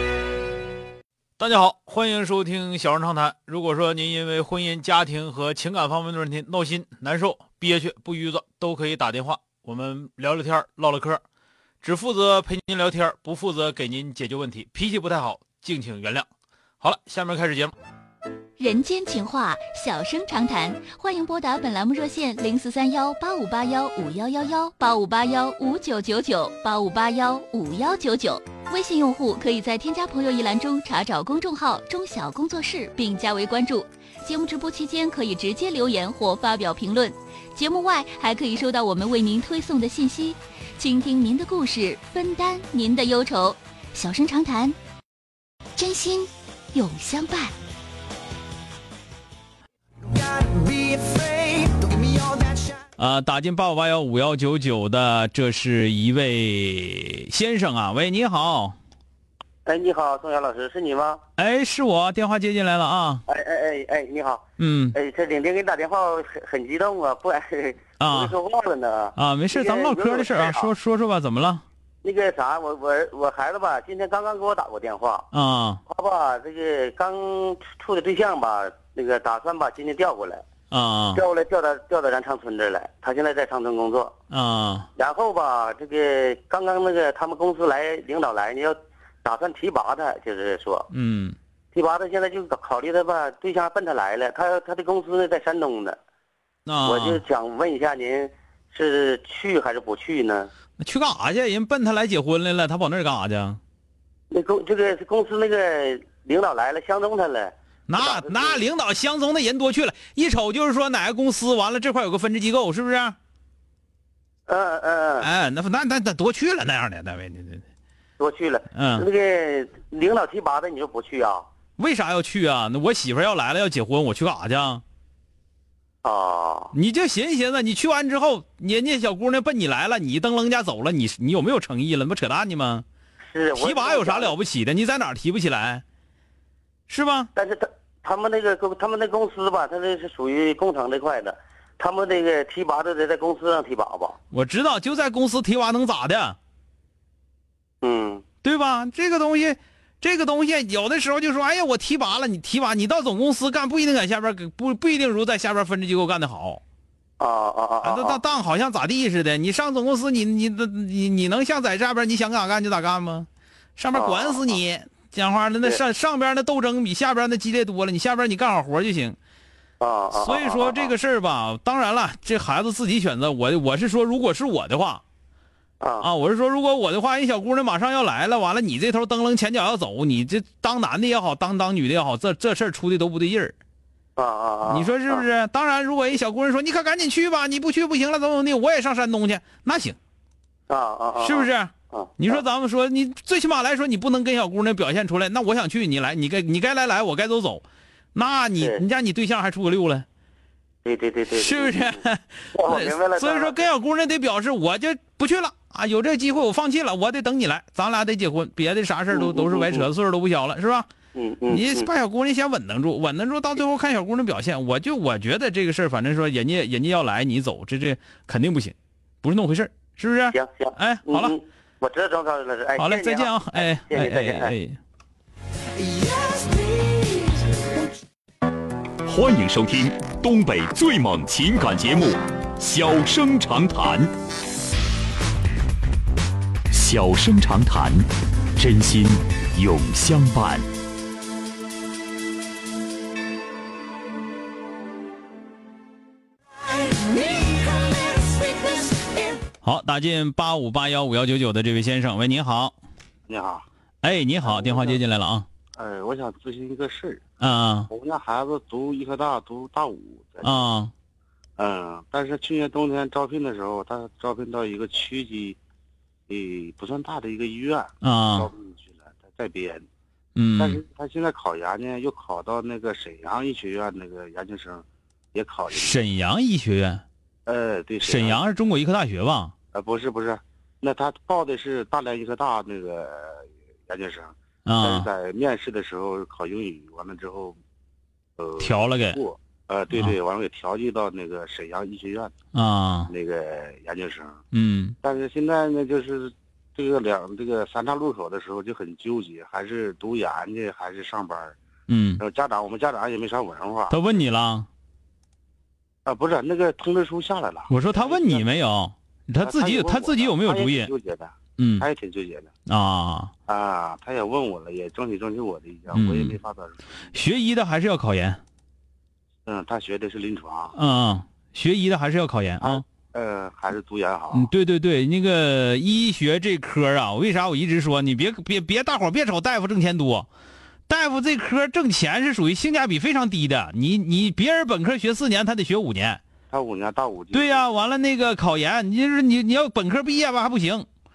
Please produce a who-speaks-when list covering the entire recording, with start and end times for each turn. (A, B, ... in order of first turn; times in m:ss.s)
0:01.4-0:11.2 A
0:11.8-0:16.3 A
0:16.8-0:17.7 A
0:18.6-0:44.8 B
0:45.8-0:47.6 B
0:50.3-0:52.4 C
0:53.0-0:58.8 A
0:59.7-1:01.2 D
1:01.4-1:03.2 A
1:03.3-1:10.7 D
1:04.6-1:05.0 A
1:08.0-1:08.4 A
1:09.2-1:11.6 A
1:12.0-1:15.3 D
1:15.3-1:15.8 A
1:15.9-1:20.4 D
1:20.7-1:21.2 A
1:21.2-1:24.1 D
1:24.3-1:24.9 A
1:25.0-1:30.9 D
1:30.9-1:31.4 A
1:31.7-1:36.0 D
1:36.7-1:37.2 A
1:36.8-1:40.5 D
1:40.8-1:43.6 A
1:44.3-1:48.6 D
1:47.9-1:53.2 A
1:54.5-1:55.3 D
1:55.2-1:57.6 A
1:58.2-2:01.5 D
1:58.7-1:59.1 A
2:01.8-2:04.8 A
2:06.0-2:06.7 D
2:06.7-2:12.8 A
2:13.3-2:14.4 D
2:13.6-2:15.8 A
2:16.9-2:17.3 A
2:17.4-2:24.2 D
2:24.3-2:26.4 A
2:27.8-2:28.2 D
2:28.4-2:36.6 A
2:37.2-2:38.2 D
2:37.8-2:49.2 A
2:43.9-2:44.6 D
2:49.8-2:51.0 D
2:50.1-2:55.0 A
2:55.8-2:56.1 D
2:56.0-3:03.6 A
3:04.2-3:05.2 D
3:04.7-3:10.0 A
3:10.7-3:12.4 D
3:11.2-3:20.1 A
3:20.8-3:22.0 D
3:21.3-3:30.9 A
3:22.5-3:23.7 D
3:29.1-3:29.9 D
3:31.1-3:31.9 D
3:31.5-3:41.4 A
3:40.3-3:44.6 D
3:42.8-3:44.8 A
3:49.0-3:54.1 E
3:56.7-4:00.7 E
4:09.6-4:12.7 A
4:13.3-4:13.6 F
4:14.0-4:15.5 A
4:14.4-4:15.0 F
4:15.8-4:17.2 F
4:17.4-4:17.9 A
4:17.9-4:20.7 F
4:20.4-4:20.9 A
4:21.6-4:25.6 F
4:26.3-4:29.9 F
4:28.0-4:28.5 A
4:30.4-4:30.8 A
4:30.6-4:36.0 F
4:35.7-4:37.0 A
4:37.5-4:38.6 F
4:38.0-4:39.5 A
4:39.7-4:47.6 F
4:44.7-4:45.1 A
4:48.4-4:52.3 F
4:48.6-4:49.2 A
4:52.5-4:53.1 A
4:53.1-4:54.4 F
4:54.5-4:55.0 A
4:55.0-5:01.6 F
5:01.9-5:02.2 A
5:02.2-5:04.0 F
5:03.9-5:04.7 A
5:06.1-5:08.6 F
5:07.7-5:10.9 A
5:09.4-5:12.5 F
5:11.6-5:11.9 A
5:12.7-5:13.3 A
5:13.5-5:16.9 F
5:15.9-5:16.4 A
5:17.1-5:18.4 A
5:19.5-5:20.8 F
5:20.8-5:22.8 A
5:22.6-5:24.5 F
5:24.3-5:30.3 A
5:30.9-5:36.2 A
5:36.5-5:37.6 F
5:37.3-5:40.9 A